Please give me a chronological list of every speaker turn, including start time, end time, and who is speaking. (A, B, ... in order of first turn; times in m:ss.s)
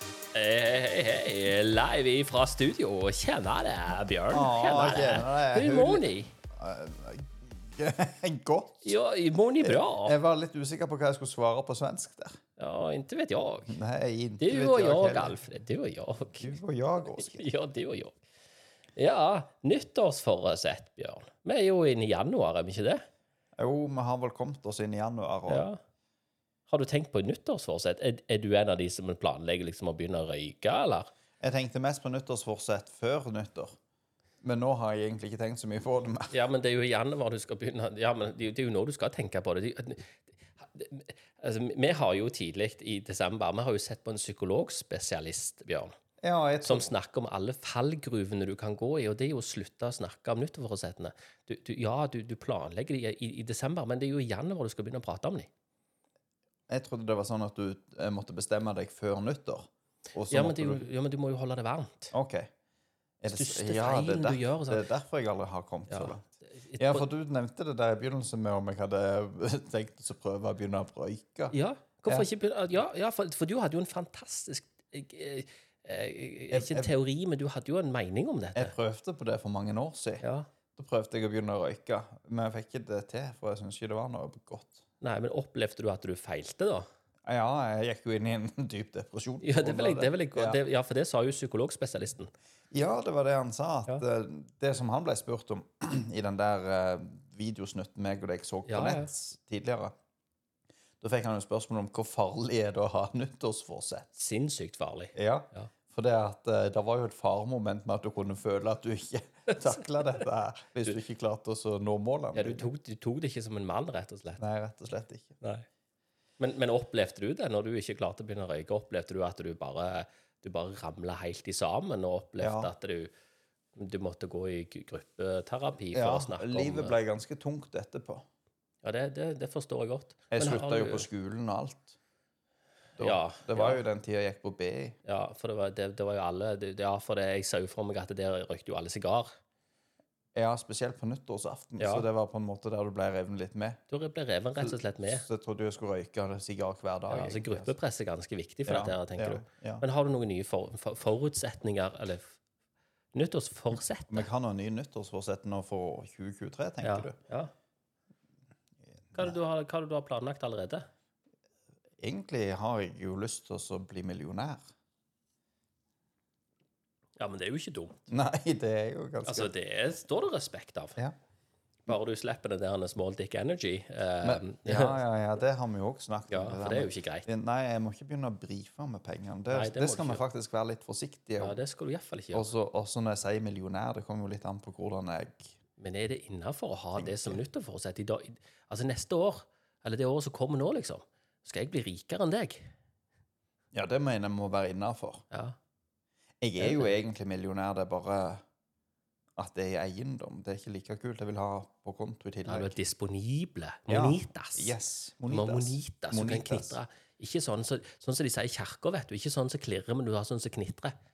0:00.3-0:06.4 A
0:04.3-0:09.0 B
0:08.8-0:10.2 A
0:09.6-0:12.4 B
0:12.6-0:13.8 A
0:13.7-0:15.4 B
0:14.4-0:18.2 A
0:16.4-0:17.5 B
0:19.0-0:23.0 A
0:23.6-0:25.7 B
0:25.5-0:25.8 A
0:26.7-0:31.1 A
0:31.4-0:33.8 B
0:34.4-0:36.3 B
0:36.3-0:45.9 A
0:46.2-0:46.9 B
0:46.6-0:55.5 A
0:56.7-1:00.9 B
1:00.3-1:02.1 A
1:02.1-1:02.5 B
1:03.2-1:11.6 B
1:03.3-1:04.9 A
1:05.9-1:07.0 A
1:11.5-1:18.8 A
1:16.5-1:17.0 B
1:18.6-1:20.2 B
1:20.2-1:20.5 A
1:20.8-1:24.8 B
1:25.0-1:26.9 A
1:27.3-1:30.6 B
1:29.4-1:32.3 A
1:32.7-1:39.9 B
1:38.7-1:39.1 A
1:41.0-1:44.1 B
1:44.2-1:45.7 A
1:45.2-1:52.7 B
1:52.3-1:54.4 A
1:54.4-1:55.4 B
1:55.4-1:55.7 A
1:56.4-2:03.1 A
2:02.4-2:02.7 B
2:03.8-2:07.0 A
2:05.9-2:08.2 B
2:08.8-2:11.1 A
2:10.3-2:12.0 B
2:13.0-2:15.0 B
2:13.0-2:13.8 A
2:15.0-2:19.3 A
2:20.4-2:23.8 B
2:21.8-2:22.1 A
2:23.9-2:25.2 A
2:24.6-2:27.7 B
2:27.1-2:32.4 A
2:28.7-2:29.8 B
2:33.1-2:34.3 A
2:34.0-2:37.2 B
2:36.8-2:37.5 A
2:39.1-2:39.4 B
2:39.2-2:40.8 A
2:42.0-2:44.6 B
2:47.2-2:48.1 A
2:48.1-2:49.5 B
2:49.2-2:51.0 A
2:51.9-2:55.0 A
2:54.2-3:01.6 B
2:56.3-2:57.3 A
2:59.5-3:00.2 A
3:01.4-3:02.5 A
3:02.3-3:05.5 B
3:05.8-3:12.7 A
3:07.0-3:07.4 B
3:13.7-3:15.2 B
3:15.3-3:15.6 A
3:16.4-3:18.4 B
3:16.6-3:17.0 A
3:19.4-3:22.8 B
3:22.4-3:24.7 A
3:23.9-3:26.8 B
3:25.3-3:30.9 A